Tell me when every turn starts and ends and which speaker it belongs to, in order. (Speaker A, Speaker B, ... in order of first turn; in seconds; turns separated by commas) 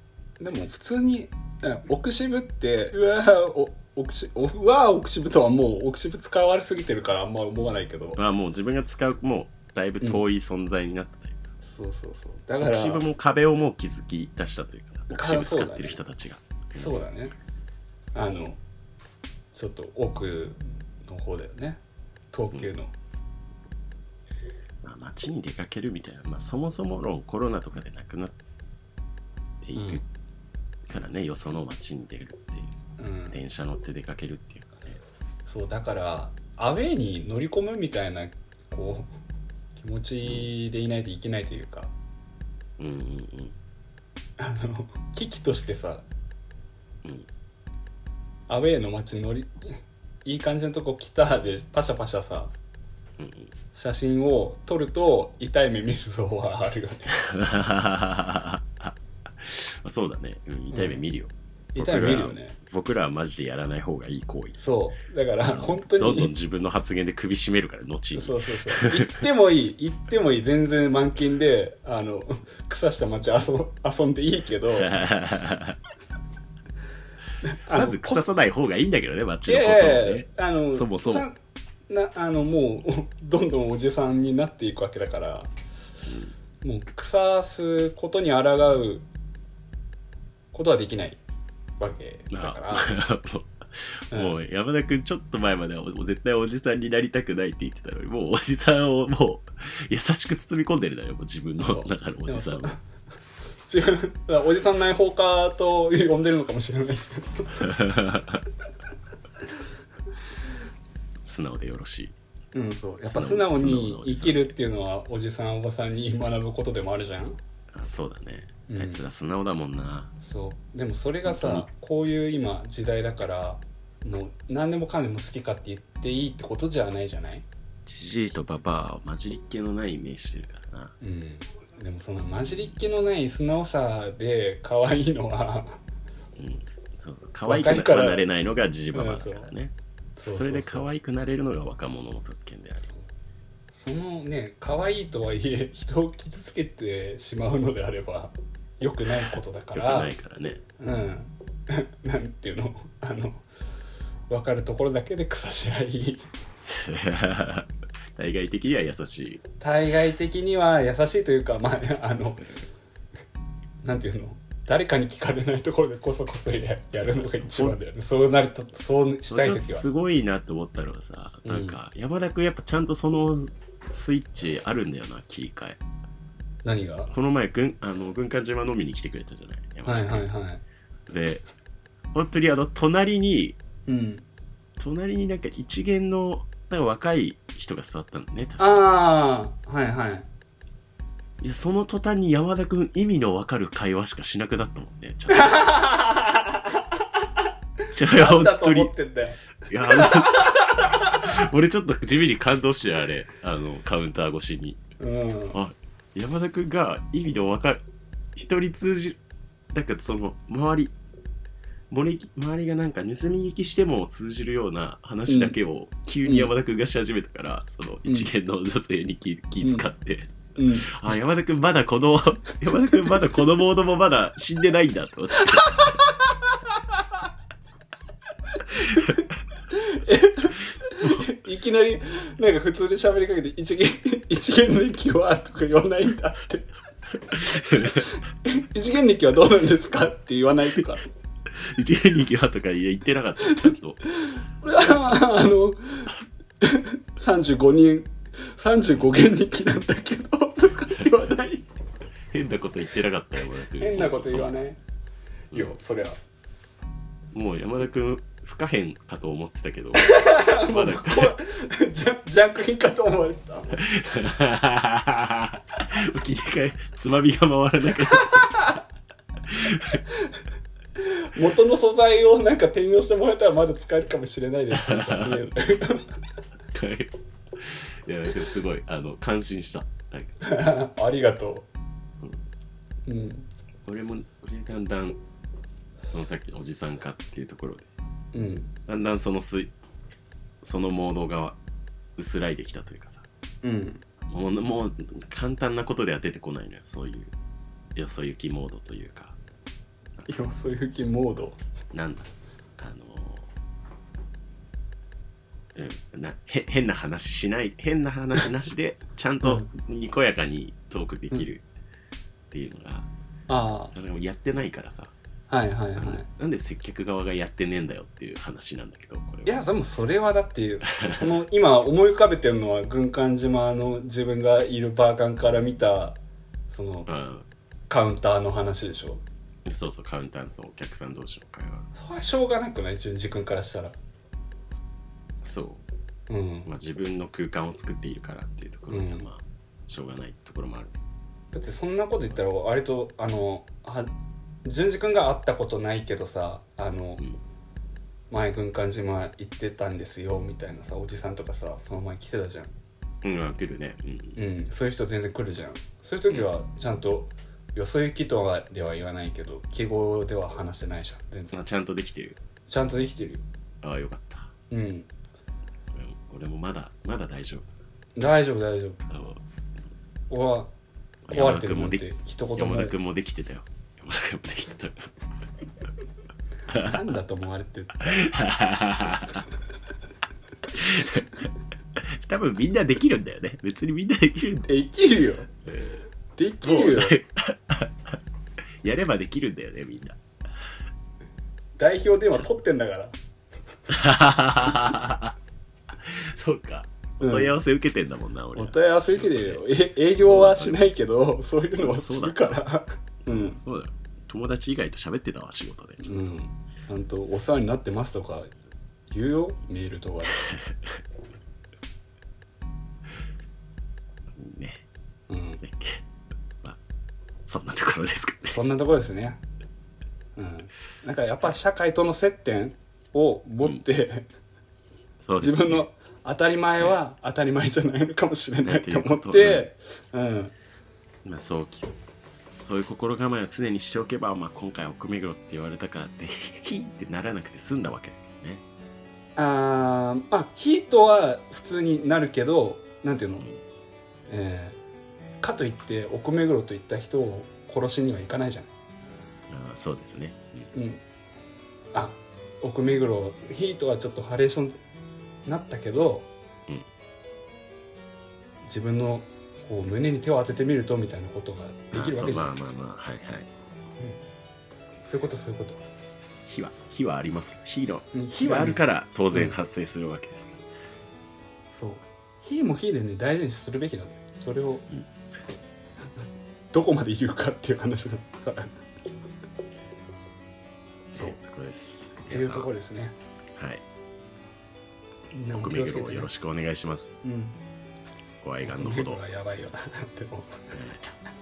Speaker A: 0.4-8.2, Speaker B: 8.2-11.5, Speaker A: 11.6-13.1, Speaker B: 12.6-17.1, Speaker A: 15.1-16.0, Speaker A: 16.8-17.4, Speaker A: 18.1-18.6, Speaker A: 19.5-22.9, Speaker B: 24.8-28.4, Speaker B: 29.6-30.0, Speaker A: 29.7-30.0, Speaker B: 30.9-32.7, Speaker A: 33.0-33.4, Speaker B: 33.3-35.0, Speaker A: 35.5-39.1, Speaker A: 39.8-41.9, Speaker B: 42.8-43.6, Speaker A: 44.4-46.1, Speaker A: 48.5-52.5, Speaker B: 53.2-53.5, Speaker A: 53.7-57.2, Speaker B: 57.2-64.6, Speaker A: 60.7-61.0, Speaker A: 61.7-62.6, Speaker A: 64.6-66.3, Speaker B: 65.4-69.1, Speaker A: 68.1-74.9, Speaker B: 74.8-75.8, Speaker A: 77.4-78.3, Speaker B: 77.7-81.3, Speaker A: 79.5-81.4, Speaker A: 81.9-85.5, Speaker B: 86.1-86.3, Speaker A: 86.6-89.1, Speaker A: 90.5-91.2, Speaker A: 91.8-93.0, Speaker B: 92.3-102.7, Speaker A: 101.6-102.8, Speaker A: 103.7-107.8, Speaker B: 107.6-108.4, Speaker B: 111.2-112.1, Speaker A: 112.5-117.4, Speaker B: 113.1-114.6, Speaker B: 117.7-120.1, Speaker A: 118.7-119.0, Speaker A: 120.2-127.5, Speaker B: 121.2-121.7, Speaker B: 127.9-130.9, Speaker A: 131.0-135.8, Speaker B: 136.4-139.7, Speaker A: 137.4-138.3, Speaker A: 138.9-139.5, Speaker A: 140.2-140.9, Speaker B: 140.3-142.9, Speaker A: 143.7-150.1, Speaker B: 149.7-150.6, Speaker A: 150.8-153.4, Speaker A: 154.3-156.3, Speaker B: 156.7-159.4, Speaker A: 159.6-162.6, Speaker A: 163.8-169.9, Speaker B: 167.0-167.8, Speaker B: 169.3-175.8, Speaker A: 171.4-171.8, Speaker A: 176.6-177.1, Speaker B: 177.1-180.3, Speaker A: 179.9-180.6, Speaker B: 181.1-181.4, Speaker B: 182.1-183.6, Speaker A: 183.9-184.2, Speaker B: 184.8-188.9, Speaker A: 188.6-190.3, Speaker B: 191.4-195.7, Speaker A: 195.3-196.8, Speaker B: 197.9-198.9, Speaker A: 198.0-201.3, Speaker B: 199.7-204.8, Speaker A: 205.0-205.6, Speaker B: 205.5-207.8, Speaker B: 208.3-209.2, Speaker B: 209.7-210.9, Speaker B: 211.9-225.9, Speaker A: 215.3-215.6, Speaker A: 216.2-216.5, Speaker A: 219.6-219.9, Speaker A: 220.6-220.9, Speaker A: 225.5-225.9, Speaker A: 228.7-236.7, Speaker B: 237.3-238.1, Speaker A: 237.6-241.0, Speaker B: 241.5-244.0, Speaker A: 243.7-251.7, Speaker B: 252.3-254.6, Speaker A: 253.7-254.8, Speaker A: 255.5-256.2, Speaker B: 257.3-261.4, Speaker A: 260.0-264.0, Speaker B: 263.8-268.6, Speaker A: 268.2-268.8, Speaker B: 269.5-270.0, Speaker A: 271.2-276.1, Speaker B: 274.7-275.4, Speaker B: 276.7-280.4, Speaker A: 280.4-281.7, Speaker A: 283.1-283.5, Speaker B: 283.9-285.2, Speaker B: 286.1-287.9, Speaker A: 288.3-288.7, Speaker B: 288.9-289.7, Speaker B: 290.6-291.6, Speaker B: 292.1-293.3, Speaker A: 293.6-294.1, Speaker B: 294.3-297.3, Speaker B: 297.9-299.4, Speaker A: 300.3-301.6, Speaker B: 301.9-302.3, Speaker B: 302.8-303.5, Speaker B: 305.7-311.6, Speaker B: 312.5-313.1, Speaker A: 313.5-313.9, Speaker B: 313.9-315.1, Speaker A: 315.5-316.3, Speaker B: 316.0-319.6, Speaker A: 319.4-327.1, Speaker B: 320.9-321.3, Speaker B: 327.1-327.4, Speaker A: 327.9-329.2, Speaker B: 329.6-331.9, Speaker A: 331.9-333.9, Speaker B: 335.4-335.8, Speaker A: 336.3-336.7, Speaker B: 336.6-341.0, Speaker A: 338.9-339.3, Speaker A: 341.5-344.1, Speaker A: 344.6-347.2, Speaker A: 348.3-352.7, Speaker B: 353.2-354.4, Speaker A: 354.4-361.6, Speaker B: 361.5-362.4, Speaker A: 362.7-363.4, Speaker B: 363.8-364.5, Speaker A: 364.7-365.1, Speaker B: 365.9-367.7, Speaker A: 368.1-369.0, Speaker B: 369.1-369.4, Speaker A: 370.3-370.7, Speaker B: 371.3-375.1, Speaker A: 371.3-372.9, Speaker B: 376.7-377.0, Speaker A: 376.7-378.3, Speaker B: 378.0-379.4, Speaker B: 380.7-384.7, Speaker A: 384.6-385.5, Speaker B: 385.6-386.0, Speaker A: 386.4-387.2, Speaker B: 386.6-388.2, Speaker B: 388.8-390.2, Speaker A: 391.8-393.1, Speaker B: 393.9-395.3, Speaker B: 395.9-399.6, Speaker A: 397.2-397.5, Speaker A: 398.6-403.6, Speaker B: 400.2-400.8, Speaker B: 401.8-402.6, Speaker B: 403.3-406.2, Speaker A: 406.0-408.5, Speaker A: 409.1-410.4, Speaker B: 410.4-410.8, Speaker B: 414.3-414.8, Speaker A: 415.3-415.6, Speaker B: 415.6-416.0, Speaker B: 417.4-418.6, Speaker A: 418.5-419.4, Speaker A: 420.4-424.3, Speaker B: 425.2-425.9, Speaker A: 425.4-430.5, Speaker B: 428.6-429.7, Speaker B: 431.2-432.0, Speaker B: 432.6-438.6, Speaker A: 439.4-443.5, Speaker A: 444.3-444.8, Speaker A: 445.4-448.7, Speaker B: 449.5-450.7, Speaker A: 450.7-451.0, Speaker A: 451.9-454.8, Speaker A: 455.4-456.3, Speaker A: 458.6-462.5, Speaker B: 461.9-463.5, Speaker A: 465.0-465.8, Speaker B: 466.5-470.6, Speaker A: 468.1-468.8, Speaker A: 471.7-474.9, Speaker A: 476.7-478.7, Speaker B: 481.1-482.7, Speaker A: 482.3-483.2, Speaker B: 483.6-483.8, Speaker A: 485.3-486.3, Speaker B: 485.5-487.3, Speaker A: 487.2-487.6, Speaker B: 488.4-489.2, Speaker A: 488.6-490.7, Speaker B: 490.7-491.0